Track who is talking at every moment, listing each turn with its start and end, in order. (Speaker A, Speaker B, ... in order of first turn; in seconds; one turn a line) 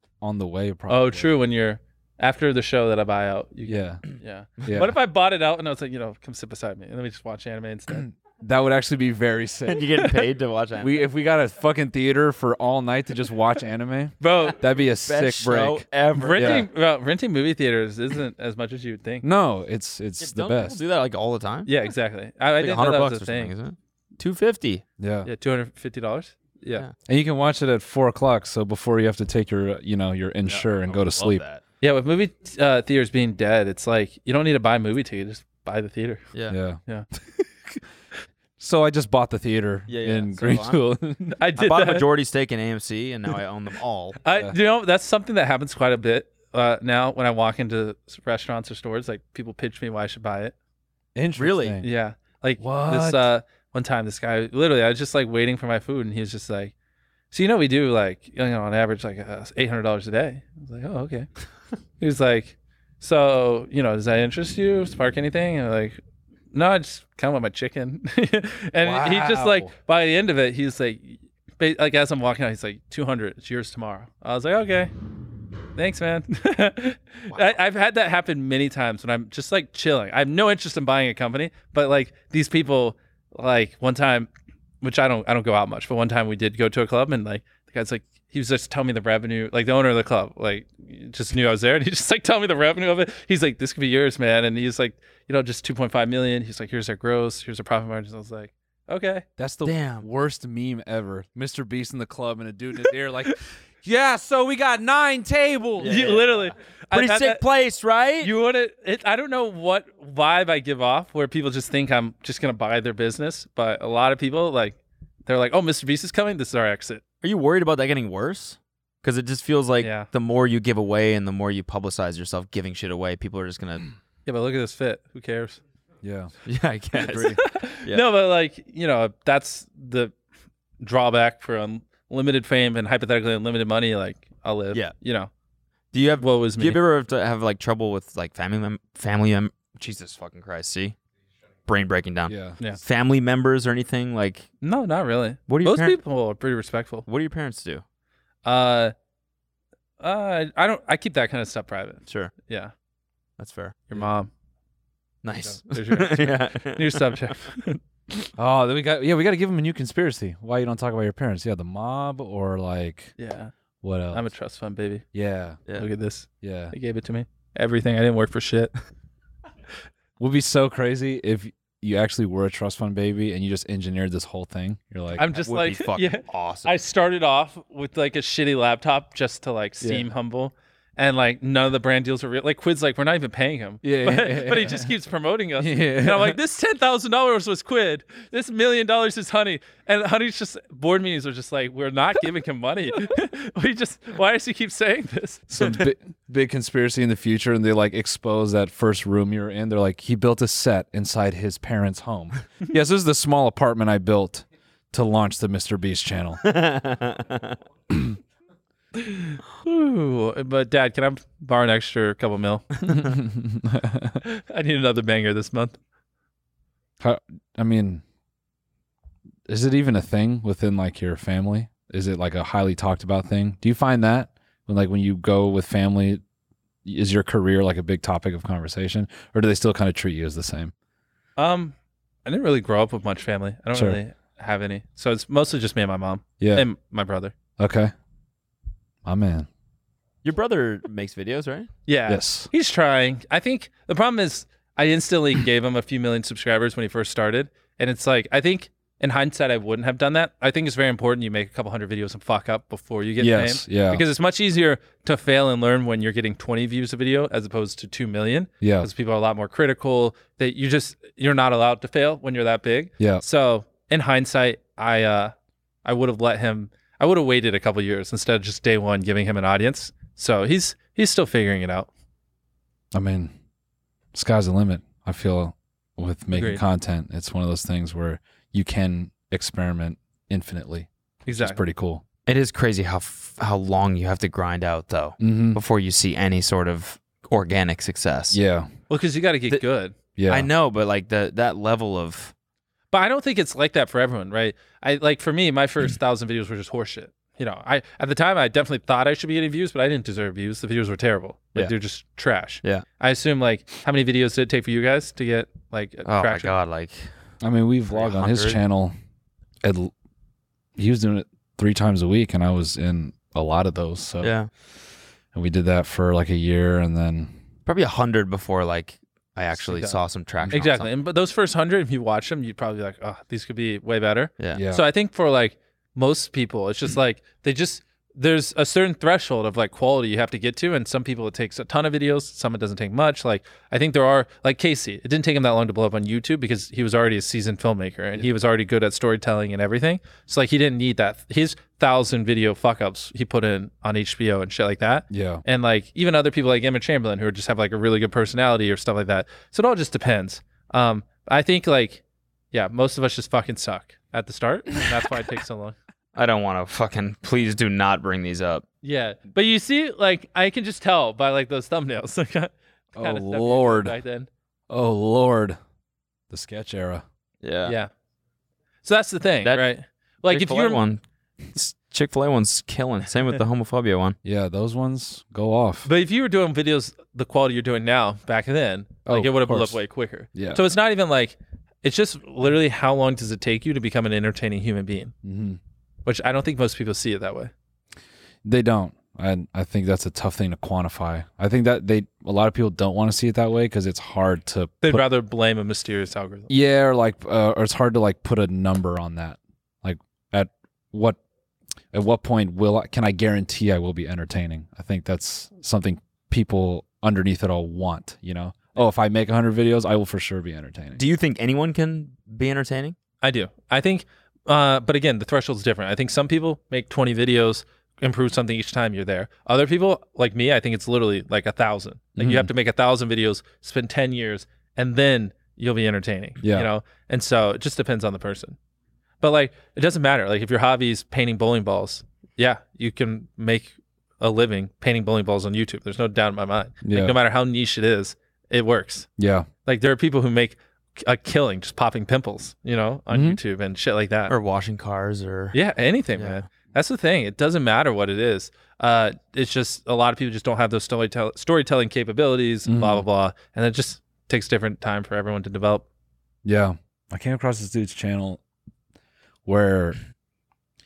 Speaker A: 0.2-1.3
Speaker B: 0.9-8.1
Speaker A: 3.6-4.0
Speaker A: 4.6-5.0
Speaker A: 7.9-10.1
Speaker C: 9.7-11.1
Speaker A: 10.8-16.7
Speaker B: 14.2-14.6
Speaker C: 15.0-16.7
Speaker B: 16.1-19.2
Speaker A: 19.2-20.8
Speaker C: 20.2-21.7
Speaker B: 21.6-23.5
Speaker C: 22.6-24.8
Speaker A: 25.0-25.3
Speaker B: 25.2-26.9
Speaker A: 27.1-31.4
Speaker C: 30.5-31.6
Speaker B: 31.8-36.2
Speaker C: 36.3-36.6
Speaker A: 36.5-37.8
Speaker A: 38.6-41.4
Speaker C: 39.9-40.8
Speaker B: 41.4-42.0
Speaker C: 41.6-44.2
Speaker B: 44.2-50.5
Speaker A: 51.1-51.9
Speaker C: 51.4-51.8
Speaker B: 51.8-56.7
Speaker A: 52.6-53.3
Speaker B: 57.3-61.3
Speaker B: 62.0-66.0
Speaker B: 66.5-74.9
Speaker A: 68.8-69.7
Speaker B: 75.7-84.3
Speaker B: 84.8-99.2
Speaker A: 99.4-106.2
Speaker C: 99.6-100.1
Speaker C: 105.8-108.3
Speaker B: 105.8-107.4
Speaker B: 108.2-117.0
Speaker C: 117.2-123.9
Speaker B: 119.8-120.1
Speaker B: 124.2-125.6
Speaker A: 126.0-126.3
Speaker C: 126.5-128.1
Speaker A: 127.0-127.4
Speaker B: 127.1-130.1
Speaker B: 130.8-135.3
Speaker C: 135.9-141.0
Speaker B: 136.2-136.8
Speaker C: 141.7-144.5
Speaker A: 142.3-142.6
Speaker B: 144.6-147.1
Speaker C: 145.5-146.0
Speaker C: 147.1-147.8
Speaker B: 148.4-148.9
Speaker B: 150.0-152.7
Speaker C: 152.1-152.3
Speaker C: 153.4-154.0
Speaker B: 153.9-154.3
Speaker C: 155.2-157.1
Speaker B: 155.4-158.2
Speaker A: 158.4-163.1
Speaker B: 163.2-163.5
Speaker A: 163.8-164.3
Speaker B: 164.1-165.0
Speaker A: 165.1-165.6
Speaker B: 165.7-168.7
Speaker A: 166.4-166.7
Speaker A: 170.2-175.2
Speaker B: 175.2-195.9
Speaker C: 175.3-176.7
Speaker A: 179.8-180.1
Speaker A: 183.8-184.9
Speaker A: 185.6-186.4
Speaker A: 195.5-206.6
Speaker C: 206.4-207.6
Speaker A: 207.9-208.2
Speaker B: 208.9-212.7
Speaker A: 212.9-214.2
Speaker B: 214.2-215.8
Speaker A: 217.0-218.0
Speaker A: 219.5-226.2
Speaker A: 226.8-230.7
Speaker B: 231.4-237.3
Speaker A: 233.7-234.0
Speaker A: 236.4-236.7
Speaker A: 237.6-237.9
Speaker A: 239.0-239.5
Speaker C: 240.2-241.7
Speaker B: 241.9-265.3
Speaker A: 242.1-242.5
Speaker A: 253.2-254.0
Speaker A: 258.6-258.9
Speaker B: 265.9-271.9
Speaker A: 272.9-273.3
Speaker A: 274.1-282.0
Speaker B: 276.3-276.6
Speaker B: 281.2-281.6
Speaker C: 282.2-288.4
Speaker A: 285.2-285.6
Speaker A: 288.3-288.7
Speaker B: 288.9-289.9
Speaker A: 290.2-290.5
Speaker C: 290.3-292.3
Speaker B: 292.9-306.5
Speaker C: 306.1-307.1
Speaker A: 307.4-308.9
Speaker C: 307.9-308.6
Speaker A: 309.6-309.9
Speaker A: 310.8-314.3
Speaker C: 314.2-314.5
Speaker A: 315.3-317.4
Speaker C: 317.6-320.9
Speaker B: 319.6-320.0
Speaker B: 320.5-355.8
Speaker A: 324.5-324.8
Speaker A: 345.1-345.4
Speaker C: 356.1-358.6
Speaker B: 358.8-364.3
Speaker A: 362.9-363.9
Speaker A: 364.7-365.6
Speaker A: 366.3-367.0
Speaker C: 367.4-367.7
Speaker B: 368.8-370.8
Speaker C: 369.4-369.7
Speaker C: 370.3-371.0
Speaker C: 371.5-374.1
Speaker A: 374.2-375.9
Speaker B: 375.9-385.1
Speaker A: 379.1-379.8
Speaker A: 380.3-380.6
Speaker A: 385.2-385.6
Speaker B: 386.1-387.5
Speaker A: 388.4-395.1
Speaker B: 394.8-396.5
Speaker A: 396.5-401.2
Speaker A: 401.9-411.0
Speaker C: 411.0-412.9
Speaker B: 413.2-428.6
Speaker A: 422.2-422.5
Speaker A: 426.4-426.7
Speaker B: 429.2-439.1
Speaker A: 436.8-437.1
Speaker A: 439.2-439.5
Speaker B: 439.6-444.3
Speaker A: 443.1-443.4
Speaker C: 444.3-445.6
Speaker B: 445.5-455.9
Speaker A: 452.6-453.0
Speaker A: 456.4-458.4
Speaker A: 459.4-460.0